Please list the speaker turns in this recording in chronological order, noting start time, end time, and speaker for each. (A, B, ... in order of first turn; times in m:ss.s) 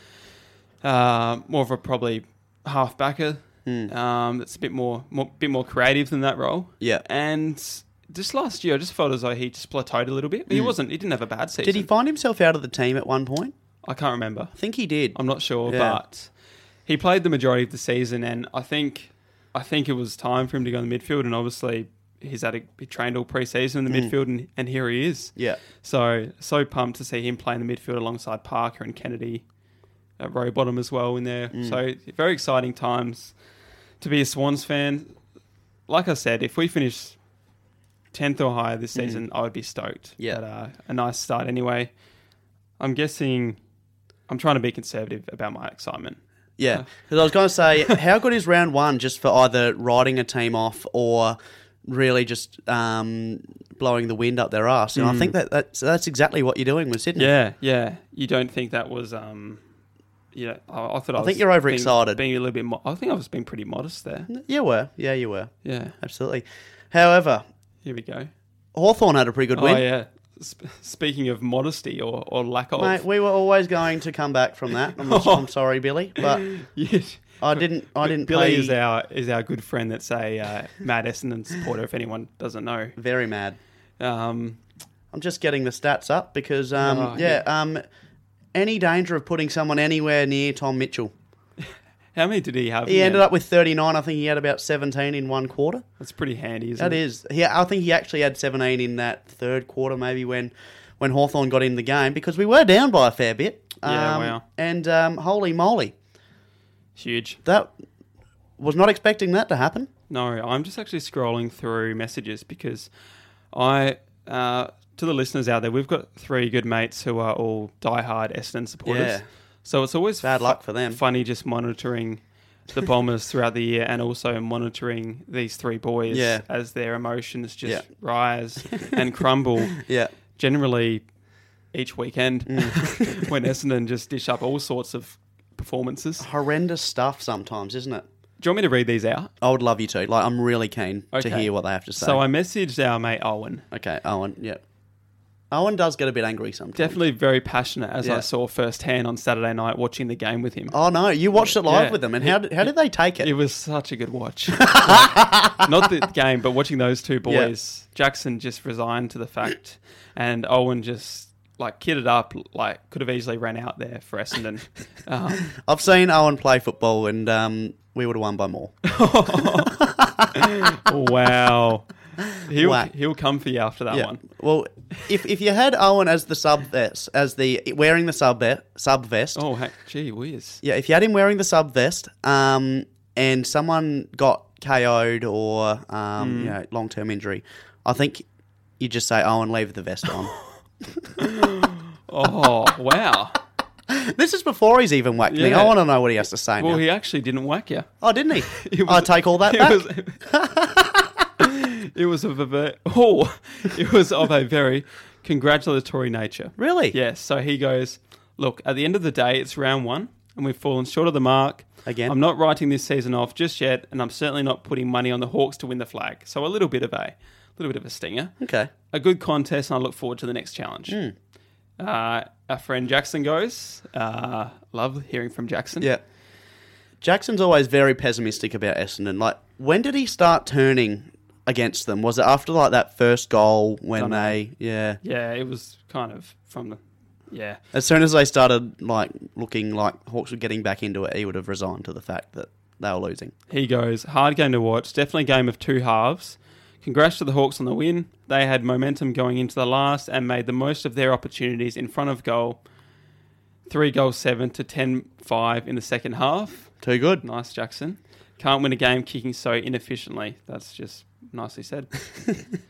0:00.8-0:11.9 A
0:03.7-0:03.9 B
0:11.6-0:13.5 B
0:13.8-0:14.5 A
0:14.6-0:16.0 B
0:15.1-0:16.3 A
0:16.9-0:29.4 A
0:30.2-0:33.4 A
0:31.5-0:31.8 B
0:34.0-0:35.1 A
0:35.9-0:37.2 A
0:38.1-0:41.9 A
0:39.0-0:39.2 B
0:42.8-0:43.6 A
0:44.3-0:46.2 A
0:46.6-0:57.3 B
0:55.0-0:55.3 A
0:57.2-0:59.6 A
1:00.3-1:04.3 A
1:01.2-1:02.2 B
1:04.3-1:07.4 B
1:05.6-1:06.0 A
1:07.8-1:08.3 A
1:08.7-1:09.8 B
1:09.6-1:13.0 A
1:12.8-1:16.4 B
1:14.9-1:15.5 A
1:16.2-1:23.0 A
1:17.4-1:18.8 B
1:23.0-1:23.6 B
1:24.0-1:24.6 A
1:25.1-1:27.8 B
1:26.8-1:27.4 A
1:28.5-1:31.1 B
1:32.2-1:33.3 A
1:32.9-1:35.8 B
1:36.0-1:37.0 A
1:36.8-1:45.9 B
1:43.8-1:44.4 A
1:47.0-1:47.4 A
1:47.4-1:47.7 B
1:48.6-1:49.9 B
1:50.1-1:52.9 A
1:53.5-2:09.8 A
1:58.8-1:59.2 B
2:00.2-2:01.0 B
2:06.1-2:06.4 B
2:09.7-2:10.1 B
2:10.4-2:11.0 A
2:11.7-2:16.3 A
2:12.5-2:13.3 B
2:16.2-2:18.0 B
2:18.4-2:19.3 A
2:19.4-2:22.2 B
2:21.1-2:23.6 A
2:23.7-2:24.6 B
2:25.5-2:27.0 B
2:26.8-2:30.8 A
2:30.7-2:33.3 B
2:31.4-2:32.4 A
2:33.2-2:45.5 A
2:34.5-2:35.8 B
2:45.4-2:48.8 B
2:48.8-2:49.8 A
2:49.4-2:50.8 B
2:50.3-2:54.2 A
2:52.2-2:52.9 B
2:53.9-2:59.4 B
2:59.4-3:00.6 A
3:00.6-3:08.2 B
3:06.2-3:06.6 A
3:08.8-3:10.3 B
3:11.2-3:13.4 A
3:13.9-3:16.8 B
3:15.3-3:15.8 A
3:16.6-3:17.9 A
3:18.0-3:21.3 B
3:18.4-3:20.3 A
3:21.4-3:38.3 A
3:26.6-3:27.0 B
3:31.9-3:32.2 B
3:38.4-3:38.7 B
3:38.9-3:41.0 A
3:40.9-3:41.2 B
3:41.8-3:45.9 A
3:47.0-3:55.0 B
3:54.0-3:54.4 A
3:55.0-3:57.6 A
3:57.7-4:03.3 B
4:03.5-4:12.6 A
4:13.7-4:21.9 A
4:16.8-4:17.2 B